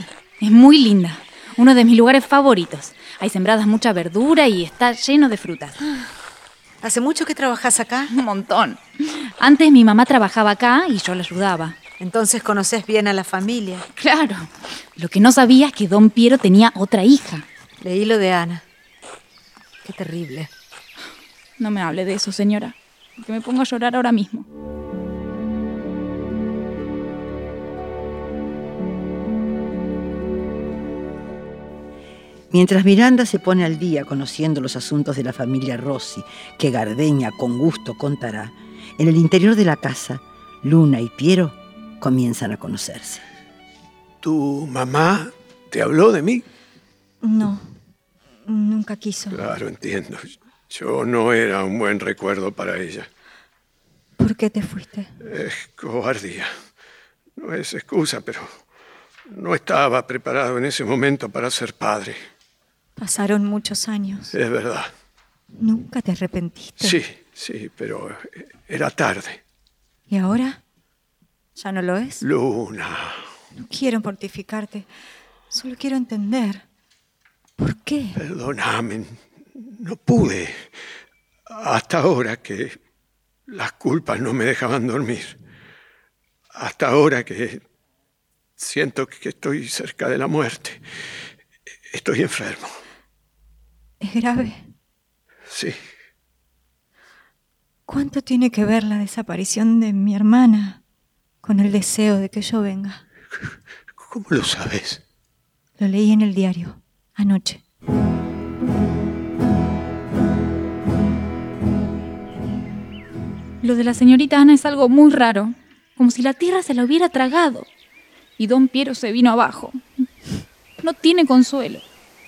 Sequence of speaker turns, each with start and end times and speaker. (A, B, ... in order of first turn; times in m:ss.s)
0:00.4-0:05.8 A
0:06.8-0:08.1 B
0:08.1-0:11.8 A
0:12.0-0:13.9 B
0:14.0-0:17.5 A
0:17.8-0:18.6 B
0:19.8-0:20.5 B
0:21.6-0:24.5 A
0:32.5-0:43.2 C
0:44.2-0:46.4 D
0:47.2-0:47.8 E
0:48.5-0:49.5 E
0:49.3-0:53.1 D
0:54.2-0:55.1 E
0:55.2-0:56.5 D
0:57.4-0:58.6 D
0:59.3-1:02.2 D
1:03.0-1:04.4 E
1:04.3-1:04.9 D
1:05.6-1:07.0 E
1:06.8-1:09.4 D
1:10.1-1:10.6 E
1:11.6-1:12.2 E
1:12.2-1:13.3 D
1:13.6-1:14.9 E
1:15.5-1:16.6 E
1:17.6-1:18.2 E
1:18.2-1:20.7 D
1:21.5-1:22.8 D
1:23.5-1:25.4 D
1:26.6-1:27.6 D
1:28.6-1:30.8 D
1:31.9-1:32.8 D
1:34.0-1:34.7 E
1:35.5-1:35.8 D
1:37.9-1:40.8 E
1:41.4-1:43.0 E
1:44.0-1:45.0 D
1:45.8-1:47.6 E
1:53.6-1:57.7 A
1:58.4-1:59.8 A
2:00.8-2:01.8 A